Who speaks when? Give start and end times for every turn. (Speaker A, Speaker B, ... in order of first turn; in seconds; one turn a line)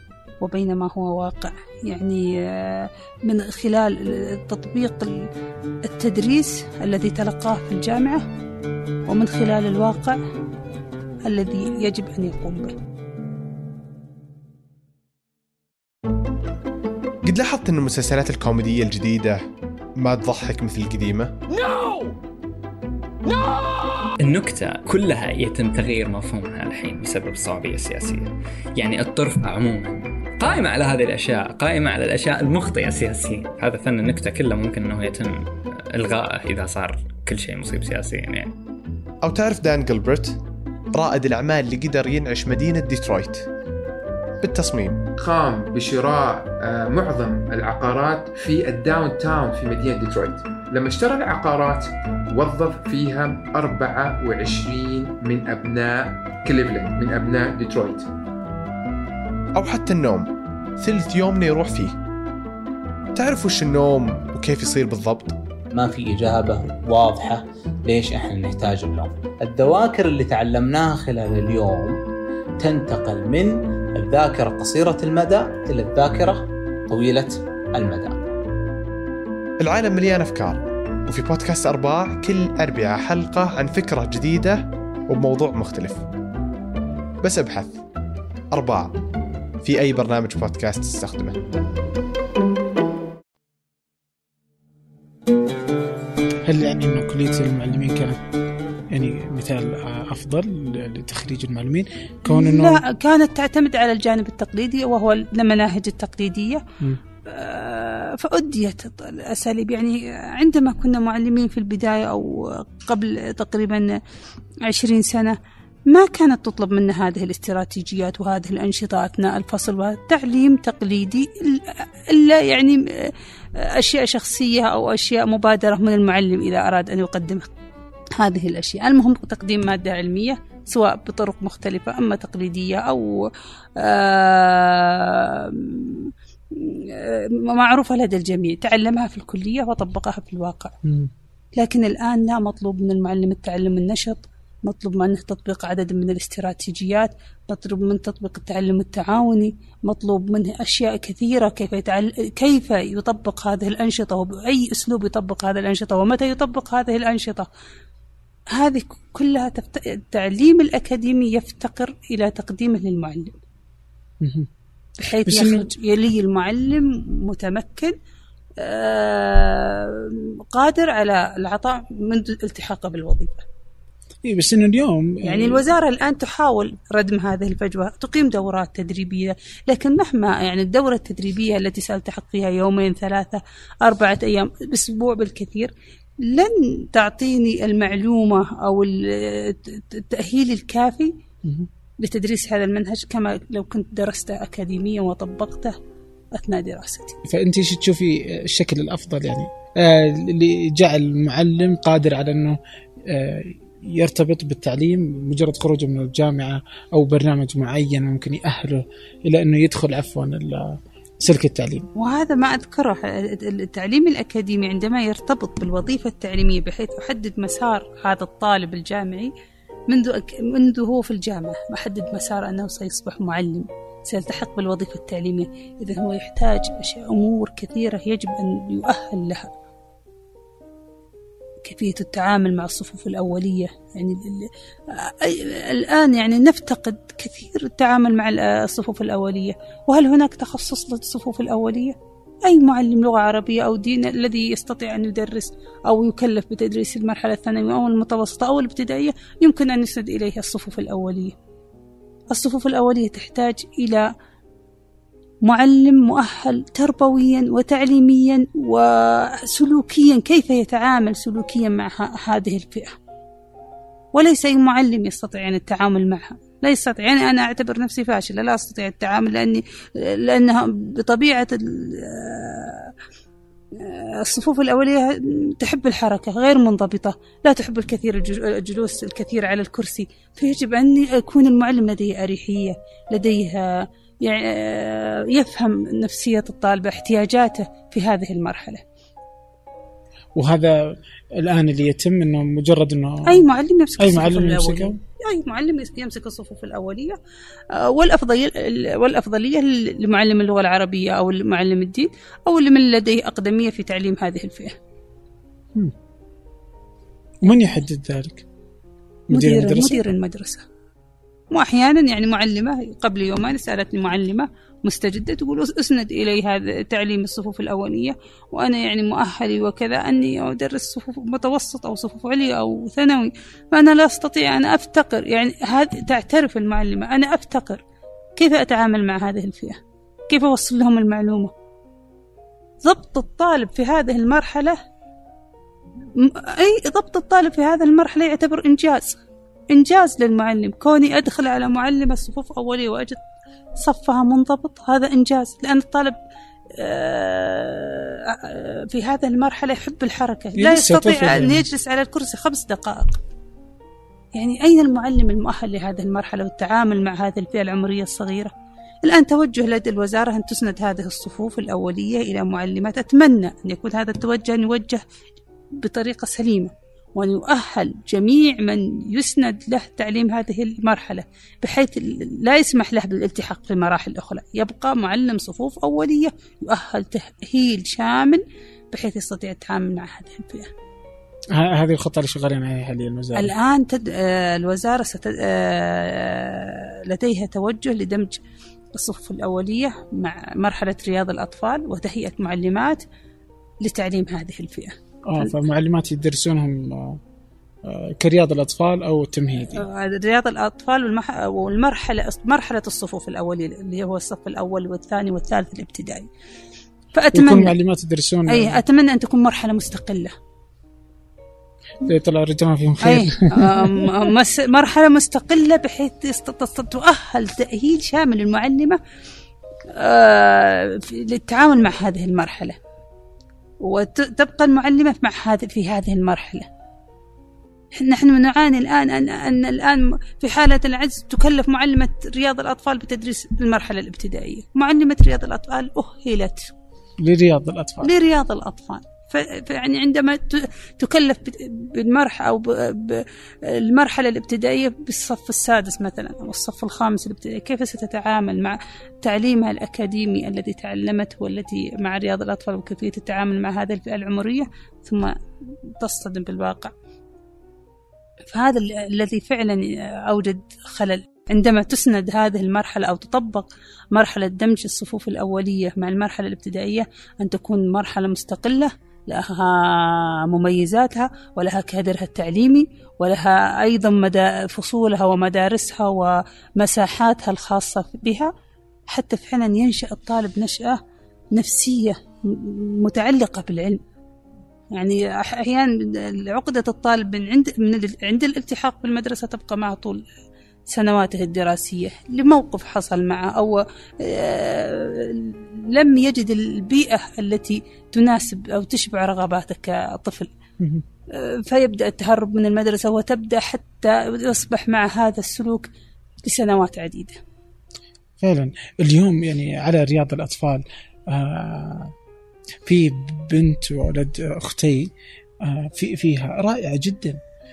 Speaker A: 0.4-5.3
Speaker A: 5.8-8.2
Speaker A: 9.1-10.2
Speaker A: 11.2-12.7
Speaker B: 17.2-19.4
Speaker B: 20.0-21.3
Speaker C: 24.2-35.4
Speaker C: 35.9-38.5
Speaker B: 39.2-40.4
Speaker B: 40.9-43.4
Speaker B: 44.4-45.0
Speaker D: 45.1-58.1
Speaker B: 59.5-60.3
Speaker B: 60.8-61.9
Speaker B: 63.1-65.4
Speaker E: 65.7-72.0
Speaker E: 72.6-78.2
Speaker B: 79.6-86.0
Speaker B: 87.2-87.8
Speaker B: 88.5-89.0
Speaker B: 89.6-91.4
Speaker F: 96.4-98.2
Speaker F: 98.9-102.8
Speaker A: 102.3-106.6
Speaker A: 107.2-113.9
Speaker A: 114.7-115.4
Speaker A: 115.9-127.5
Speaker A: 128.2-140.8
Speaker F: 140.8-141.1
Speaker A: 141.6-157.5
Speaker A: 158.5-163.4
Speaker F: 164.2-164.5
Speaker A: 165.0-167.9
Speaker F: 165.0-165.7
Speaker A: 168.6-173.4
Speaker F: 174.2-175.6
Speaker A: 175.2-191.1
Speaker F: 191.4-191.7
Speaker A: 192.0-195.8
Speaker A: 196.3-197.2
Speaker F: 197.2-211.9
Speaker A: 211.9-219.3
Speaker A: 219.9-229.5
Speaker A: 231.6-251.3
Speaker A: 252.3-254.1
Speaker A: 255.4-262.9
Speaker A: 264.1-272.9
Speaker A: 273.7-288.8
Speaker F: 290.3-295.0
Speaker A: 293.3-297.2
Speaker A: 297.7-304.8
Speaker F: 307.4-308.4
Speaker F: 309.3-310.0
Speaker A: 309.3-310.6
Speaker A: 311.5-327.8
Speaker A: 328.4-331.5
Speaker A: 332.8-334.8
Speaker A: 336.2-339.2
Speaker A: 339.7-343.2
Speaker A: 343.8-346.2
Speaker A: 346.8-353.2
Speaker F: 350.6-351.6
Speaker A: 354.3-358.5
Speaker A: 359.0-365.0
Speaker A: 365.8-378.4
Speaker A: 378.9-380.7
Speaker F: 381.5-383.5
Speaker A: 383.3-388.4
Speaker A: 388.9-393.0
Speaker A: 393.8-395.5
Speaker F: 395.3-397.2
Speaker F: 397.8-399.8
Speaker A: 399.7-406.3
Speaker A: 407.1-407.7
Speaker F: 407.3-408.8
Speaker A: 408.5-410.3
Speaker F: 412.0-414.3
Speaker A: 413.0-419.0
Speaker A: 419.9-422.8
Speaker A: 423.8-426.7
Speaker A: 427.9-436.7
Speaker F: 437.2-438.1
Speaker A: 438.0-455.3
Speaker A: 456.0-456.9
Speaker A: 458.5-478.5
Speaker A: 479.1-481.0
Speaker A: 481.5-484.0
Speaker A: 484.9-490.2
Speaker A: 490.9-500.5
Speaker A: 501.3-505.9
Speaker A: 506.4-507.4
Speaker F: 508.4-512.1
Speaker F: 512.8-517.4